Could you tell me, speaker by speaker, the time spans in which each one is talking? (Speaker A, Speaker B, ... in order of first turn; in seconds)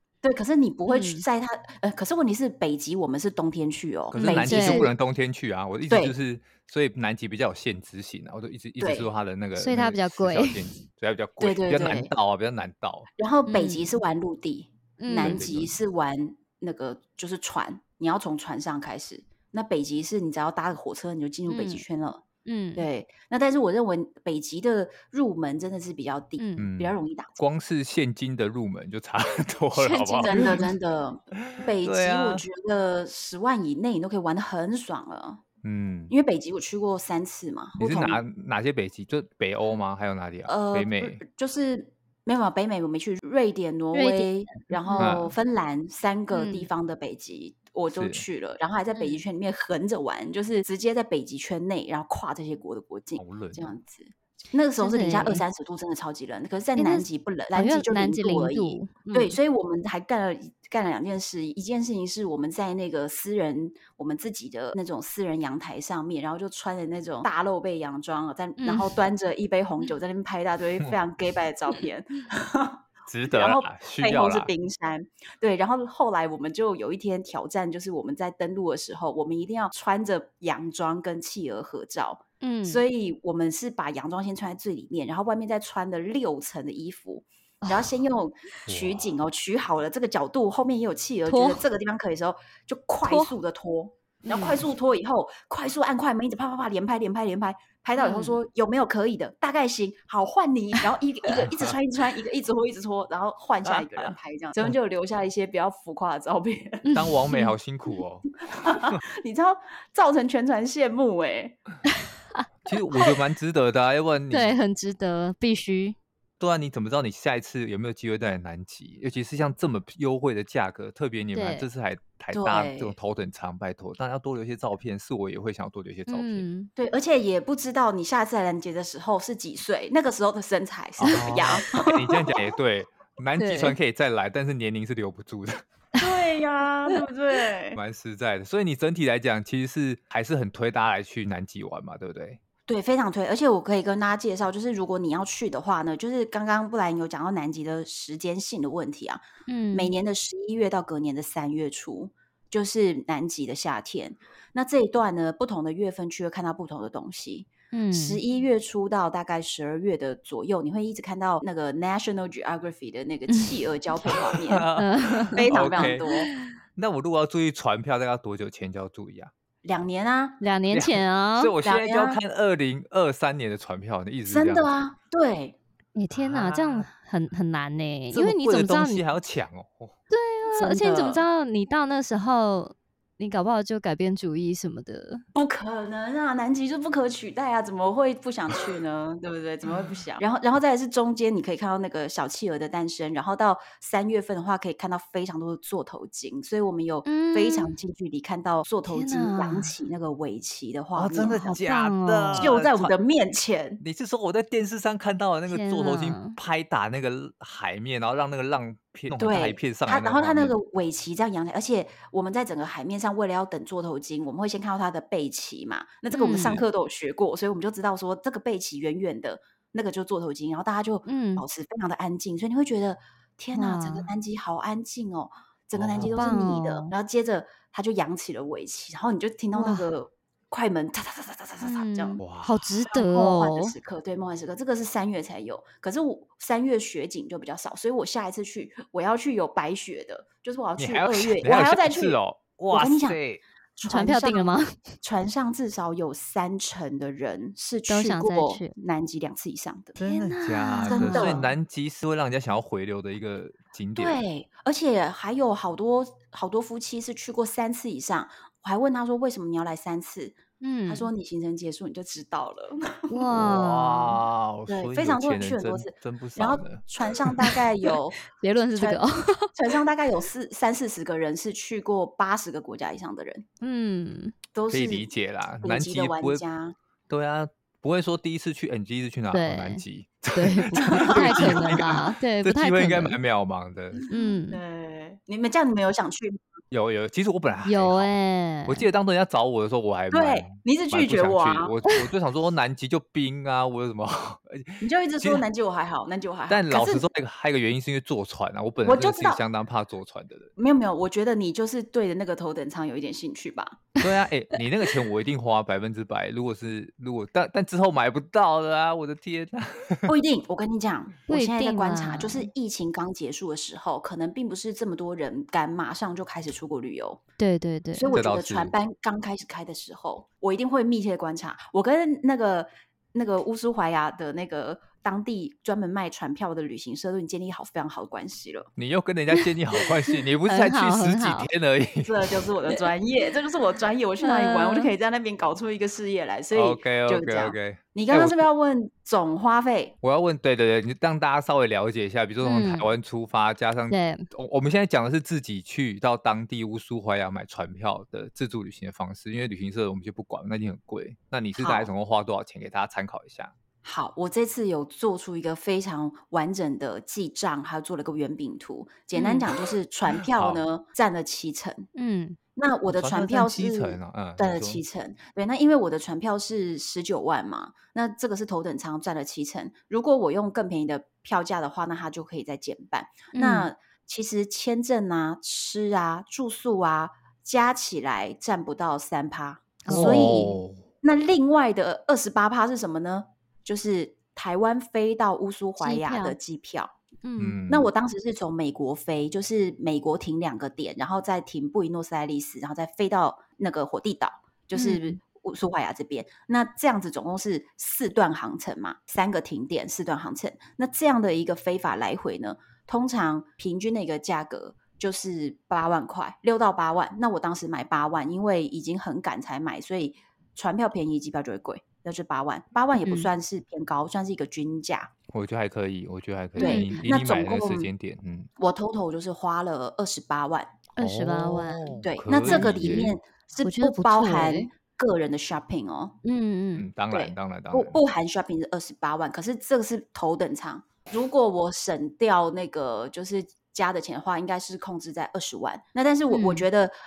Speaker A: 0.2-4.9, 5.9-6.1, 8.8-9.1, 11.4-12.1, 13.2-22.2, 22.8-27.4, 29.8-35.4, 36.1-38.2, 40.5-106.8, 108.5-111.6, 122.3-123.0, 126.8-132.4, 136.0-137.8, 142.7-149.2, 149.7-164.7, 165.3-166.3, 169.7-170.4, 171.6-172.2, 174.3-175.6, 185.3-201.6, 202.3-203.8, 209.1-232.2, 232.9-242.2, 242.7-243.2, 243.8-250.0, 250.9-251.5, 254.0-263.1, 264.7-268.2, 268.8-273.4, 274.5-275.1, 275.6-276.8, 280.8-282.0, 284.0-286.4, 290.1-291.7, 294.8-297.1, 298.8-299.4, 300.6-303.9, 310.1-317.2, 317.9-328.7, 332.0-339.9, 351.6-351.9, 353.8-361.9, 362.6-386.9, 387.7-415.1, 416.6-417.9, 418.6-420.8, 422.0-426.1, 427.1-436.9
Speaker B: 0.9-1.2, 4.2-4.9, 9.6-10.8, 13.5-14.0, 15.0-15.5, 21.5-21.8, 22.4-22.9, 26.4-26.7, 29.8-30.6, 43.9-45.2, 46.3-46.7, 48.9-49.2, 54.8-55.5, 56.8-59.4, 68.6-69.0, 82.4-82.8, 87.6-87.9, 91.3-91.6, 93.0-93.3, 94.2-94.6, 98.0-98.3, 106.8-107.5, 114.3-116.0, 121.3-121.7, 126.1-126.7, 133.4-133.8, 149.5-149.9, 157.7-158.2, 163.3-163.6, 164.8-166.5, 170.4-171.6, 175.9-179.1, 180.1-185.2, 197.1-197.8, 198.9-199.7, 201.5-202.5, 205.5-206.4, 216.1-216.6, 221.1-221.4, 223.6-224.1, 226.0-226.9, 229.5-229.9, 231.6-233.8, 243.9-244.8, 247.9-248.7, 250.0-251.5, 260.6-261.1, 263.1-264.2, 268.3-269.5, 273.6-274.3, 279.3-279.8, 280.4-283.2, 284.1-284.6, 287.7-288.9, 311.3-312.5, 317.4-318.1, 330.2-331.5, 334.2-334.9, 342.4-342.9, 343.9-344.3, 359.1-359.5, 361.9-362.4, 373.3-373.7, 379.8-380.5, 385.8-386.4, 387.2-387.6, 394.7-395.2, 413.0-413.3, 416.6-417.0, 421.0-423.1, 423.6-424.7, 426.2-426.9, 436.3-436.7
Speaker C: 4.1-13.1, 15.2-15.8, 26.6-30.7, 31.4-32.5, 35.6-36.1, 37.8-41.2, 45.0-45.3, 47.9-48.2, 53.2-53.7, 73.1-74.5, 88.7-89.2, 101.4-101.8, 103.6-104.8, 107.0-109.0, 112.7-114.6, 116.4-126.5, 131.0-135.6, 137.8-142.4, 164.0-166.0, 166.8-169.3, 170.7-174.7, 176.1-176.9, 178.1-180.0, 180.5-181.2, 200.9-202.9, 203.8-210.6, 225.8-226.3, 232.2-232.7, 240.8-243.4, 250.0-254.2, 263.3-267.6, 274.7-276.4, 277.1-284.0, 286.7-288.1, 288.7-295.4, 296.5-300.5, 304.0-310.1, 318.1-318.7, 328.8-332.3, 336.5-338.4, 340.0-353.5, 360.2-360.6, 362.9-364.8, 379.9-380.8, 387.4-387.9, 415.3-418.5, 421.0-423.2, 426.8-428.0